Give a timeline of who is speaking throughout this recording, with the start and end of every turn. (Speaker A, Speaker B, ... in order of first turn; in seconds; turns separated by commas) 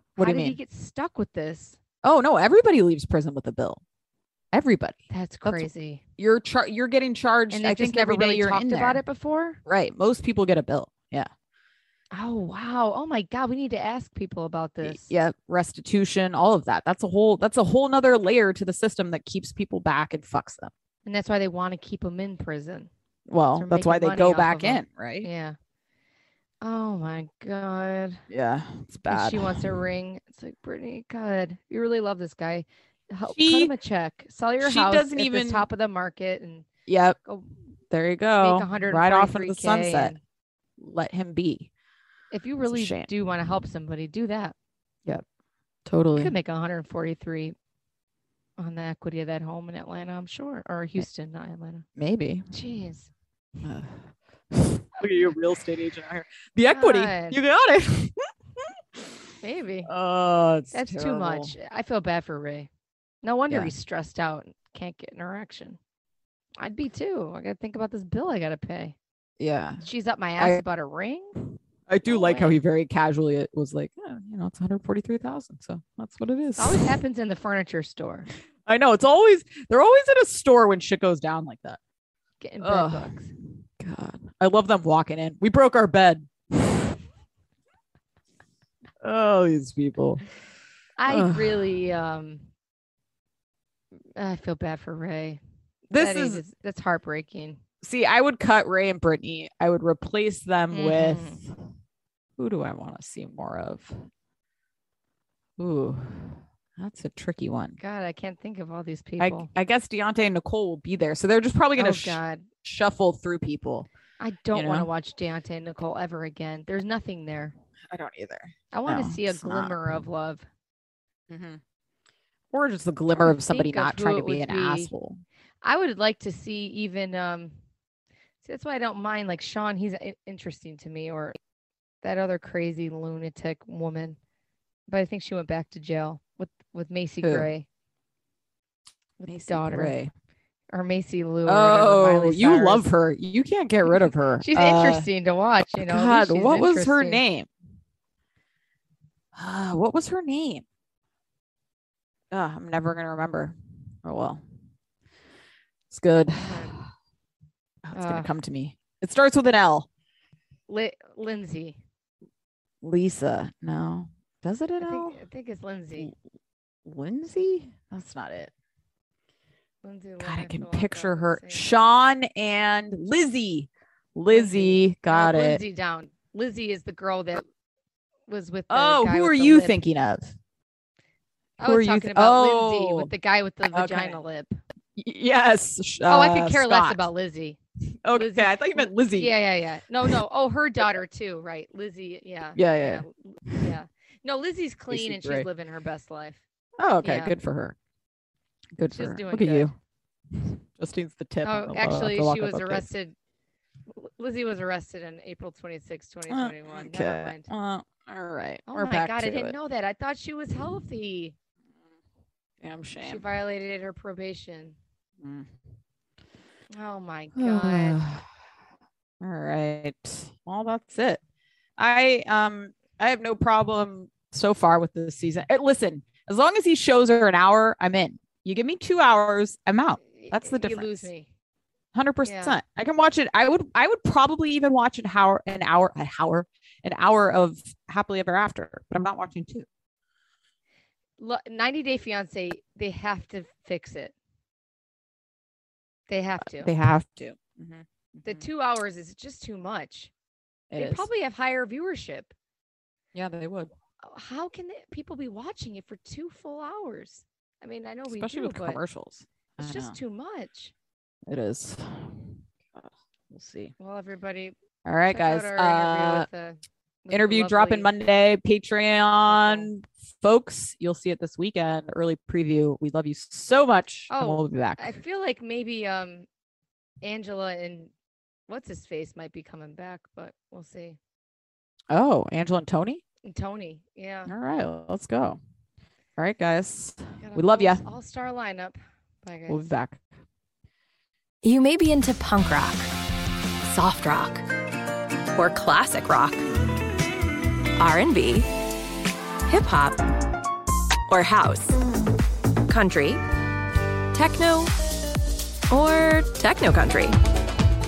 Speaker A: 0.2-0.6, Speaker B: 0.2-1.8, Speaker A: 2.0-3.8, Speaker A: 4.5-9.0, Speaker B: 5.1-6.0, Speaker B: 7.5-9.6, Speaker A: 9.7-11.3, Speaker B: 12.1-15.1, Speaker A: 14.8-20.7, Speaker B: 21.1-22.9, Speaker A: 23.3-25.3, Speaker B: 23.6-25.6, Speaker B: 26.6-28.2, Speaker A: 28.3-29.7, Speaker B: 29.1-36.7, Speaker A: 33.3-33.7, Speaker A: 34.6-35.7, Speaker A: 36.9-37.2, Speaker B: 37.2-37.5, Speaker A: 37.9-40.1, Speaker B: 38.4-40.2, Speaker A: 40.8-41.7, Speaker B: 42.3-44.5, Speaker A: 42.7-43.1, Speaker A: 45.9-46.3, Speaker B: 46.1-47.5, Speaker B: 48.6-51.9, Speaker A: 52.0-52.5, Speaker B: 52.5-53.1, Speaker A: 53.6-59.2, Speaker B: 56.7-57.4, Speaker B: 59.4-59.9, Speaker A: 59.9-61.5, Speaker B: 60.7-62.7, Speaker B: 63.2-65.8, Speaker B: 66.6-69.0, Speaker A: 69.4-69.8, Speaker B: 69.8-71.4, Speaker A: 71.9-76.9, Speaker B: 72.1-72.6, Speaker B: 76.6-78.3, Speaker A: 78.7-81.8, Speaker B: 82.4-83.3, Speaker A: 82.6-83.1, Speaker A: 83.8-86.9, Speaker A: 89.0-90.2, Speaker B: 91.0-92.5, Speaker A: 91.1-91.7, Speaker B: 94.2-95.4, Speaker A: 95.9-96.4, Speaker B: 95.9-97.6, Speaker A: 97.8-101.5, Speaker B: 100.7-101.4, Speaker A: 102.4-104.0, Speaker A: 105.6-107.8, Speaker B: 107.8-109.5, Speaker A: 109.2-113.9, Speaker B: 111.8-112.5, Speaker B: 114.2-117.5, Speaker A: 114.5-114.9, Speaker A: 117.9-119.8, Speaker B: 118.7-120.5, Speaker A: 121.3-121.6, Speaker A: 122.5-125.2, Speaker B: 123.2-124.9, Speaker B: 125.6-127.6, Speaker B: 128.4-131.4, Speaker B: 132.0-134.2, Speaker B: 134.9-137.7, Speaker A: 137.2-137.5, Speaker B: 139.2-139.9, Speaker A: 139.3-140.1, Speaker B: 140.7-142.9, Speaker A: 141.5-145.1, Speaker B: 143.9-147.2, Speaker A: 145.8-147.5, Speaker A: 149.3-150.6, Speaker A: 152.3-154.4, Speaker A: 155.9-156.8, Speaker B: 156.3-156.8, Speaker A: 157.8-159.9, Speaker B: 157.9-158.3, Speaker B: 160.7-161.8, Speaker A: 162.8-165.2, Speaker B: 164.8-166.1, Speaker A: 166.8-168.5, Speaker B: 169.8-171.7, Speaker A: 170.2-175.6, Speaker B: 174.3-177.4, Speaker B: 178.3-179.8, Speaker A: 178.7-180.3, Speaker B: 181.6-184.6, Speaker A: 181.6-183.1, Speaker A: 183.7-184.2, Speaker A: 185.0-187.1, Speaker B: 186.0-187.6, Speaker A: 188.0-189.3, Speaker B: 188.1-196.4, Speaker A: 192.6-193.7, Speaker A: 194.9-195.5, Speaker A: 196.8-197.8, Speaker B: 197.0-197.4, Speaker A: 198.8-199.8, Speaker B: 198.9-199.7, Speaker A: 200.4-202.9, Speaker B: 201.4-203.2, Speaker B: 203.9-207.5, Speaker A: 206.3-209.6, Speaker B: 208.7-211.3, Speaker A: 212.6-213.2, Speaker B: 213.0-214.8, Speaker A: 215.2-215.5, Speaker B: 216.7-218.0, Speaker A: 217.3-218.2, Speaker A: 219.2-221.2, Speaker A: 221.8-231.1, Speaker B: 230.0-231.3, Speaker A: 231.9-239.7, Speaker B: 232.2-232.6, Speaker B: 241.2-244.1, Speaker B: 246.1-246.7, Speaker A: 246.4-248.5, Speaker B: 248.2-250.1, Speaker A: 250.7-251.1, Speaker B: 250.8-252.3, Speaker A: 253.1-253.7, Speaker B: 254.0-258.8, Speaker A: 258.1-260.0, Speaker B: 259.6-260.7, Speaker A: 261.3-263.7, Speaker B: 263.8-264.6, Speaker A: 264.9-266.3, Speaker B: 265.1-267.9, Speaker A: 267.1-274.9, Speaker B: 269.3-269.7, Speaker B: 274.1-276.3, Speaker B: 277.0-277.9, Speaker B: 278.5-281.0, Speaker A: 281.9-283.0, Speaker B: 283.2-284.3, Speaker A: 284.3-285.4, Speaker A: 286.2-287.8, Speaker B: 287.2-289.7, Speaker A: 289.5-290.0, Speaker C: 291.4-292.9, Speaker C: 293.6-294.4, Speaker C: 295.3-296.5, Speaker C: 297.8-298.5, Speaker C: 299.5-300.0, Speaker C: 301.1-301.7, Speaker C: 302.7-303.2, Speaker C: 304.1-304.7, Speaker C: 305.7-307.2